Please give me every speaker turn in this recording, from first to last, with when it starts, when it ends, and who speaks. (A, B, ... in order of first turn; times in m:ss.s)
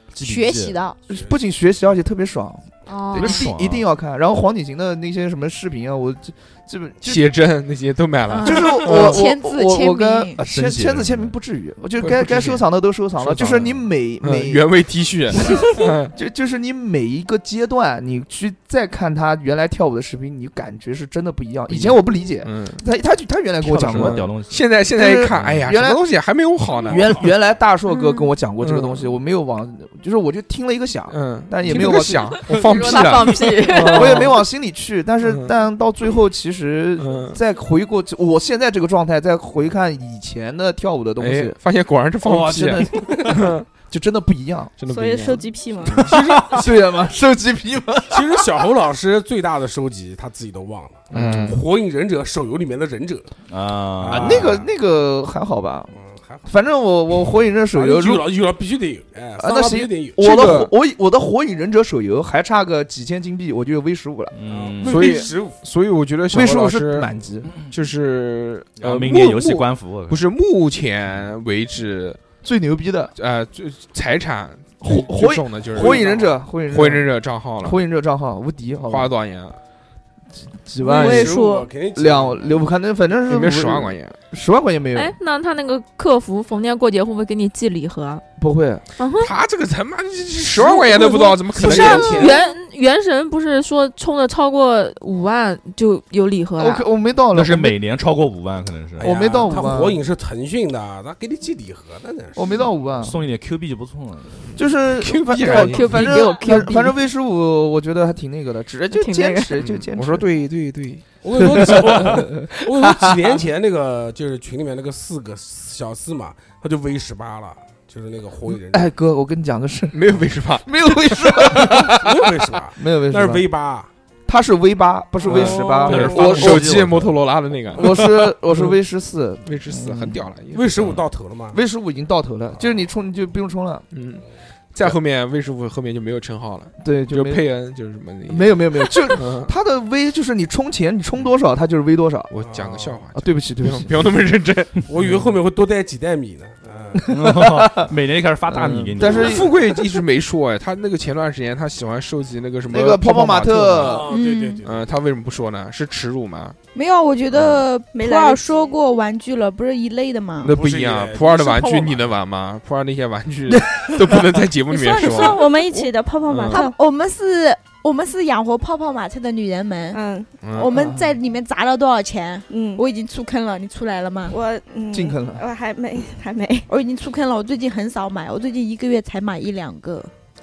0:00.2-0:00.8 A
0:00.2-0:01.0 B
0:01.1-0:01.4 C
0:01.1-0:07.3 D
0:02.9-0:03.3 B
0:03.1-0:03.8 A
0:07.0-0:09.2 E
0:08.3-0:10.4 B
0:08.4-0:14.7 D
0:10.4-0:11.3 A
0:12.0-0:12.6 E
0:13.2-0:16.1 E
0:15.6-0:24.3 D
0:21.7-0:22.8 E
0:23.6-0:24.6 A
0:23.9-0:27.1 E
0:24.9-0:26.0 D
0:25.3-0:25.6 A
0:26.8-0:27.3 C
0:26.9-0:32.4 D
0:27.8-0:28.3 B
0:28.6-0:29.1 E
0:31.1-0:34.4 E
0:31.7-0:34.3 F
0:33.8-0:41.6 D
0:35.2-0:35.5 E
0:37.0-0:37.4 E
0:41.2-0:43.6 E
0:42.2-0:44.7 D
0:44.8-0:46.6 E
0:44.9-0:46.0 G
0:45.9-0:46.7 C
0:46.1-0:48.5 D
0:48.1-0:53.3 C
0:51.1-0:51.6 E
0:53.5-0:54.5 A
0:54.0-0:54.7 C
0:54.1-0:55.9 D
0:55.9-0:56.5 C
0:56.4-0:58.3 D
0:57.7-1:00.6 C
0:59.4-1:04.4 D
1:00.2-1:00.7 E
1:04.3-1:05.3 A
1:04.4-1:05.6 C
1:04.8-1:07.1 E
1:06.3-1:07.5 D
1:07.7-1:12.2 E
1:08.8-1:10.2 A
1:12.4-1:13.1 D
1:13.1-1:17.8 E
1:14.8-1:17.1 D
1:15.7-1:16.3 C
1:17.6-1:19.1 D
1:18.9-1:19.6 E
1:20.5-1:25.1 D
1:20.8-1:22.5 C
1:21.0-1:21.5 F
1:23.3-1:24.1 E
1:24.9-1:28.2 F
1:28.4-1:28.8 D
1:29.0-1:29.3 F
1:29.2-1:32.3 E
1:30.4-1:32.4 C
1:31.6-1:32.1 D
1:31.7-1:36.9 F
1:36.6-1:37.8 D
1:37.3-1:39.1 A
1:39.0-1:42.7 C
1:39.0-1:40.0 D
1:42.3-1:43.2 D
1:43.0-1:44.4 A
1:44.6-1:50.3 D
1:45.0-1:46.2 E
1:45.4-1:46.9 F
1:48.9-1:49.6 F
1:49.6-1:51.7 E
1:51.2-1:58.9 C
1:51.3-1:53.4 D
1:58.7-2:02.2 D
1:59.9-2:02.1 E
2:02.0-2:03.9 C
2:02.8-2:03.5 D
2:04.2-2:06.7 D
2:05.2-2:06.6 C
2:05.3-2:08.7 E
2:05.3-2:07.1 A
2:07.8-2:10.2 D
2:09.4-2:11.0 E
2:10.5-2:11.6 C
2:11.5-2:13.8 D
2:13.9-2:19.5 E
2:16.8-2:17.5 D
2:18.3-2:22.3 D
2:22.3-2:24.8 E
2:22.4-2:23.0 C
2:23.1-2:24.0 D
2:24.9-2:27.1 C
2:26.9-2:27.9 D
2:27.1-2:29.5 A
2:28.5-2:29.6 D
2:29.0-2:34.0 E
2:32.6-2:34.1 D
2:33.8-2:34.9 C
2:34.1-2:34.6 B
2:34.6-2:36.6 E
2:36.7-2:40.5 B
2:37.3-2:37.6 E
2:37.9-2:38.7 G
2:40.4-2:45.4 E
2:40.4-2:42.1 C
2:43.8-2:44.2 D
2:44.7-2:46.8 G
2:44.7-2:45.6 B
2:46.3-2:46.6 E
2:46.5-2:54.4 B
2:49.9-2:50.3 G
2:50.4-2:50.7 E
2:50.7-2:51.1 D
2:52.5-2:52.8 G
2:54.3-2:56.7 G
2:54.9-2:55.4 D
2:56.7-3:00.1 B